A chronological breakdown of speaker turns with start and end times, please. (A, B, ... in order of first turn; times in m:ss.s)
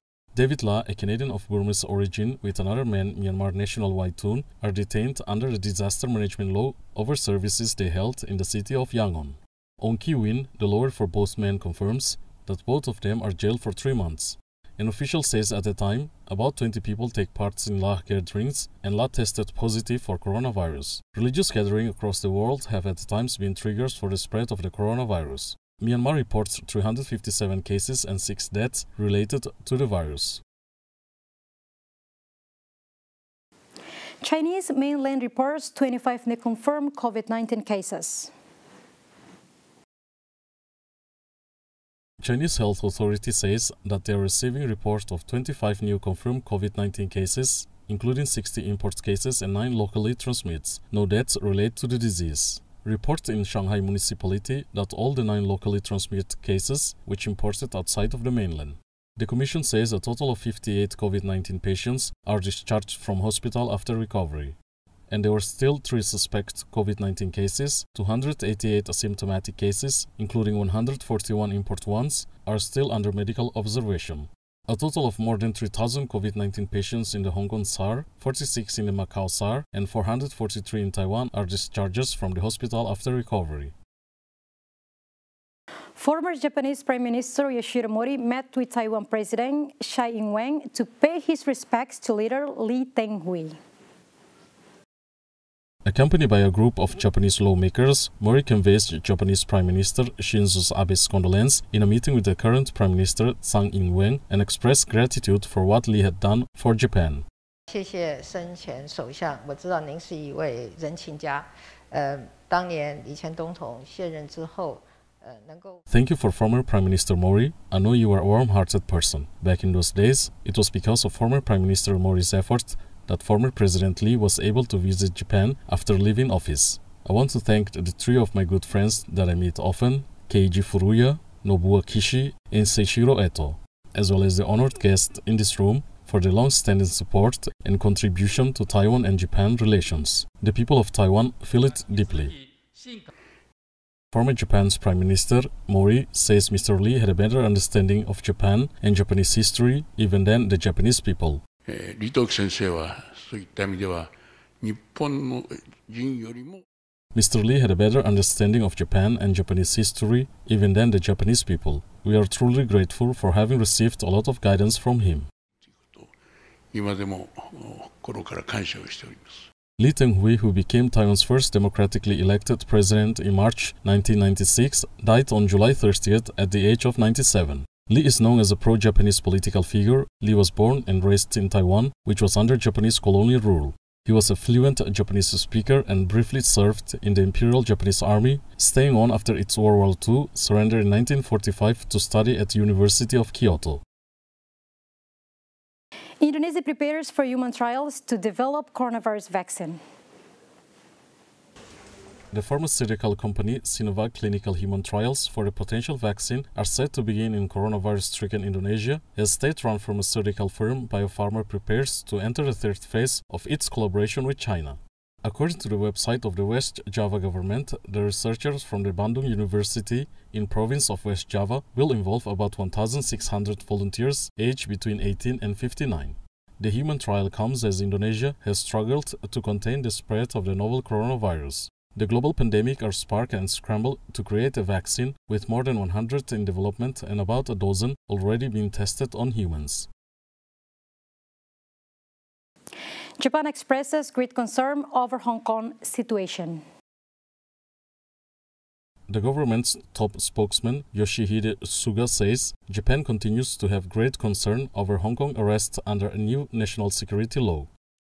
0:00.4-0:30.4 A
0:34.2-0:38.3 B
0:42.2-1:04.6 A
1:05.1-1:23.7 A
1:26.0-1:33.6 B
1:35.8-1:47.2 A
1:47.7-1:55.8 C
1:55.9-2:22.4 A
2:24.1-2:31.4 A
2:31.7-2:34.1 D
2:34.6-2:36.6 D
2:37.2-2:45.3 A
2:46.7-2:49.3 D
2:49.8-3:13.8 A
3:16.2-3:19.8 B
3:22.3-3:59.9 A
4:03.2-4:06.6 B
4:09.1-4:17.7 A